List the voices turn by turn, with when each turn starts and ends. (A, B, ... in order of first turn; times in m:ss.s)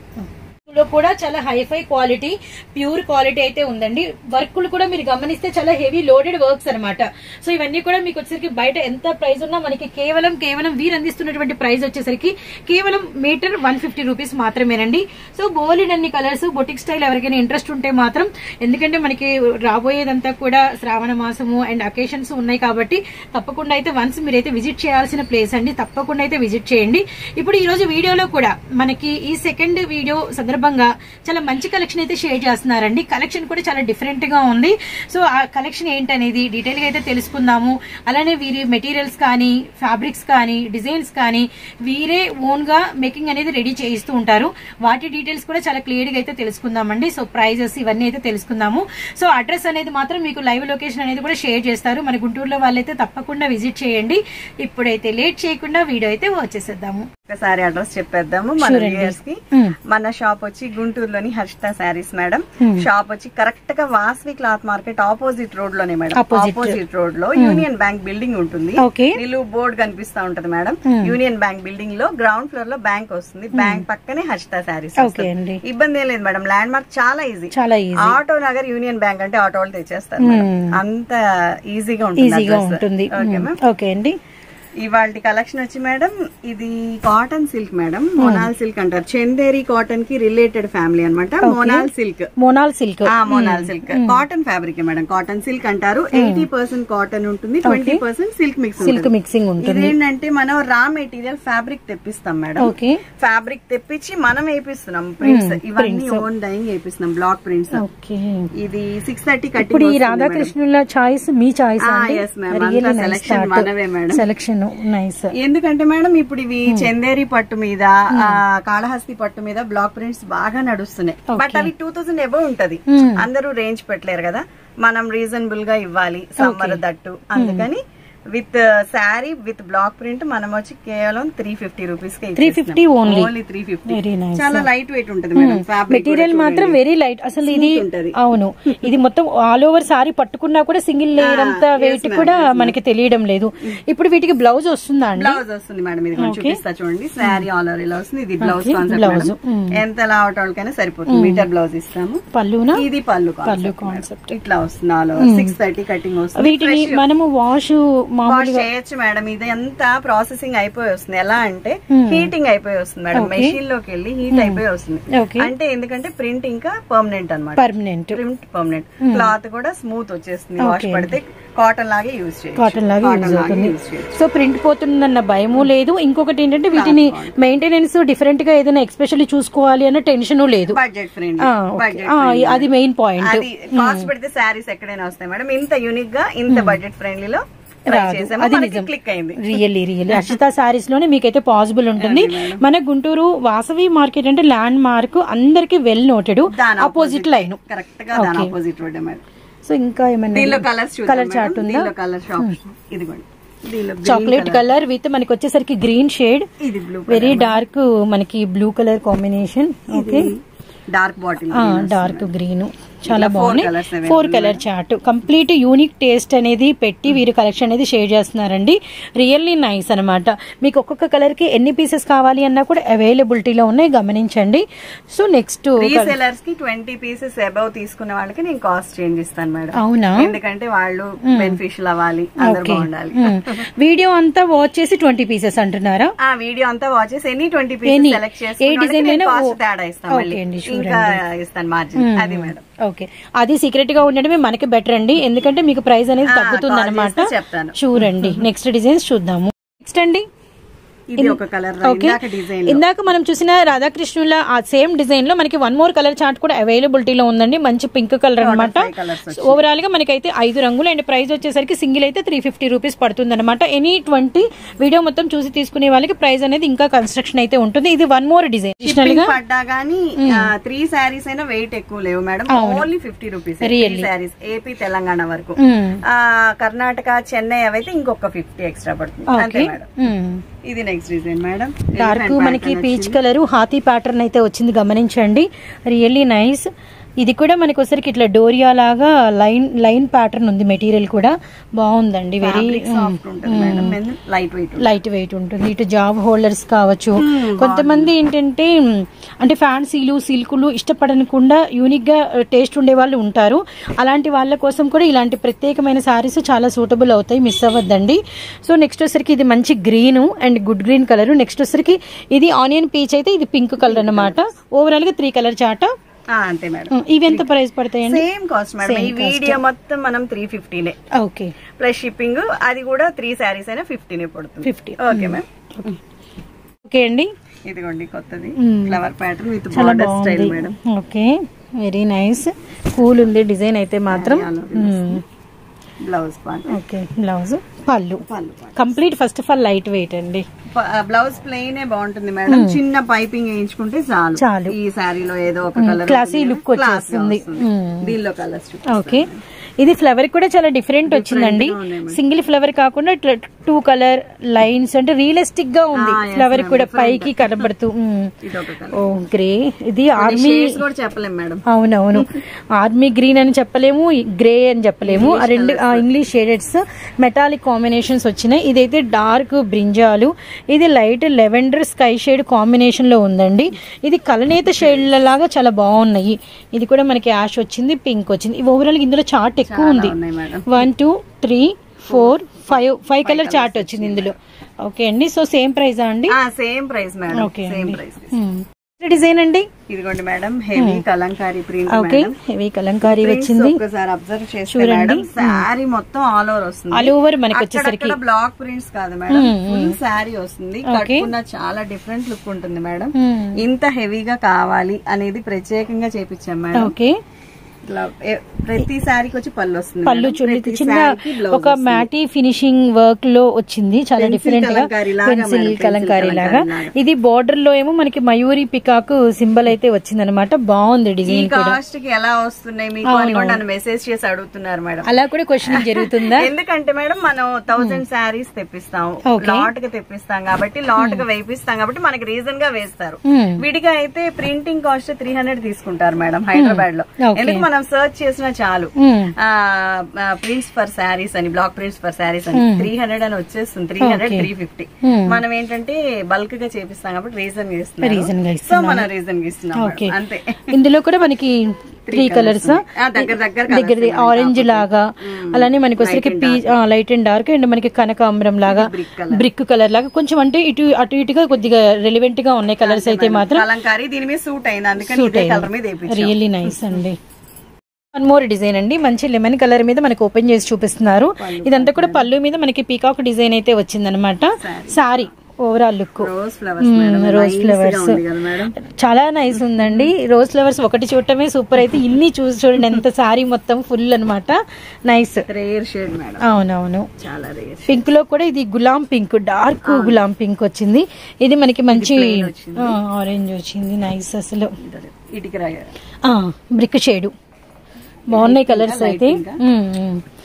0:00.7-0:57.0 A
0:57.3-1:23.6 B
0:58.6-0:59.7 A
1:02.6-1:02.8 A
1:06.1-1:06.8 A
1:07.4-1:07.6 A
1:08.8-1:09.2 A
1:10.9-1:11.1 A
1:13.5-1:13.8 A
1:15.0-1:15.6 A
1:17.5-1:18.2 A
1:20.2-1:20.8 A
1:22.2-1:24.2 A
1:24.8-1:32.3 B
1:28.2-1:28.5 A
1:31.4-1:34.2 A
1:33.0-1:39.1 B
1:36.1-1:36.4 A
1:37.6-1:38.0 A
1:38.8-1:39.9 A
1:39.6-1:47.8 B
1:42.6-1:43.0 A
1:45.2-1:46.2 A
1:47.8-1:48.5 A
1:48.6-1:50.5 B
1:49.6-1:55.3 A
1:51.8-1:54.2 B
1:55.4-2:16.8 B
1:58.1-1:58.4 A
2:01.3-2:01.7 A
2:02.9-2:03.2 A
2:06.4-2:06.8 A
2:07.4-2:07.6 A
2:12.4-2:13.3 A
2:13.9-2:14.7 A
2:15.4-2:25.4 A
2:17.4-2:18.2 B
2:21.2-2:22.7 B
2:25.2-2:32.2 B
2:26.2-2:26.6 A
2:28.4-2:29.8 A
2:31.1-2:31.4 A
2:32.3-2:32.8 A
2:32.7-2:37.0 B
2:33.4-2:34.3 A
2:35.2-2:35.5 A
2:36.4-2:38.6 A
2:38.3-2:54.2 B
2:41.9-2:42.3 A
2:43.1-2:43.6 A
2:44.3-2:44.6 A
2:45.1-2:45.5 A
2:47.6-2:48.2 A
2:49.0-2:49.3 A
2:50.6-2:51.2 A
2:52.6-3:00.8 A
2:56.7-2:57.4 B
3:00.7-3:10.4 B
3:01.4-3:04.1 A
3:06.5-3:06.8 A
3:07.9-3:17.6 A
3:12.0-3:12.6 B
3:16.4-3:19.2 B
3:18.1-3:18.5 A
3:19.6-3:22.6 A
3:20.3-3:24.7 B
3:24.0-3:26.5 A
3:26.6-3:27.6 B
3:27.1-3:30.3 A
3:29.9-3:32.3 B
3:31.5-3:46.1 A
3:33.1-3:34.6 B
3:45.8-3:53.6 B
3:49.8-3:50.3 A
3:51.2-3:51.6 A
3:52.4-3:56.1 A
3:56.2-4:02.6 B
3:57.9-3:59.5 A
4:00.1-4:01.2 A
4:02.0-4:10.2 A
4:06.2-4:08.3 B
4:11.1-4:12.8 B
4:11.2-4:29.3 A
4:18.4-4:19.6 B
4:28.8-4:39.9 B
4:30.2-4:30.5 A
4:32.5-4:32.9 A
4:33.6-4:34.1 A
4:35.6-4:36.0 A
4:39.3-4:40.4 A
4:40.6-4:43.2 B
4:42.0-4:46.7 A
4:47.2-4:54.0 A
4:52.4-4:55.0 B
4:54.8-5:15.9 A
4:57.2-4:58.1 B
5:13.8-5:14.4 B
5:16.3-5:21.0 B
5:16.9-5:18.2 A
5:18.8-5:19.6 A
5:21.2-5:21.5 A
5:21.8-5:26.0 B
5:24.6-5:25.4 A
5:26.8-5:27.3 A
5:27.6-5:30.7 B
5:28.6-5:29.0 A
5:29.7-5:35.2 A
5:34.1-5:35.2 B
5:36.0-5:36.7 B
5:36.7-5:38.2 A
5:38.2-5:39.0 B
5:38.8-5:40.4 A
5:40.7-5:49.4 B
5:42.5-5:42.8 A
5:44.4-5:44.7 A
5:45.8-5:48.1 A
5:48.9-5:49.2 A
5:49.8-5:58.3 A
5:51.0-5:52.2 B
5:55.9-5:57.4 B
5:58.4-5:59.1 B
5:58.9-6:00.8 A
6:00.2-6:01.6 B
6:01.7-6:20.1 A
6:02.1-6:02.4 B
6:05.0-6:06.0 B
6:19.6-6:20.8 B
6:20.7-6:26.4 A
6:22.1-6:24.3 B
6:26.3-6:28.4 B
6:27.3-6:29.7 A
6:29.9-6:32.4 B
6:30.8-6:31.0 A
6:31.9-6:33.8 A
6:33.0-6:46.9 B
6:34.7-6:35.6 A
6:36.9-6:38.2 A
6:39.3-6:40.0 A
6:40.8-6:41.3 A
6:43.2-6:43.6 A
6:46.8-6:47.1 A
6:47.9-6:52.1 B
6:50.0-7:01.8 A
6:54.2-6:56.9 B
7:01.3-7:05.1 B
7:03.1-7:03.6 A
7:05.0-7:06.5 A
7:05.7-7:30.7 B
7:09.2-7:09.7 A
7:11.0-7:11.2 A
7:13.3-7:13.6 A
7:16.5-7:17.6 A
7:19.0-7:19.3 A
7:22.5-7:22.9 A
7:24.0-7:24.5 A
7:25.0-7:25.4 A
7:28.0-7:29.1 A
7:29.8-7:30.1 A
7:30.7-7:31.6 A
7:32.1-7:36.7 B
7:32.1-7:43.6 A
7:38.6-7:39.4 B
7:42.8-7:47.0 B
7:45.0-7:47.2 A
7:48.1-7:56.3 A
7:51.4-7:52.3 B
7:54.6-7:55.2 B
7:56.2-7:58.7 B
7:56.8-7:58.2 A
7:58.8-8:05.4 A
7:59.5-8:00.1 B
8:05.5-8:06.4 B
8:06.4-8:07.1 A
8:07.2-8:08.1 B
8:07.9-8:14.7 A
8:09.8-8:10.2 B
8:11.9-8:13.0 B
8:14.8-8:15.9 B
8:16.2-8:17.3 A
8:18.3-8:19.6 B
8:18.3-8:20.2 A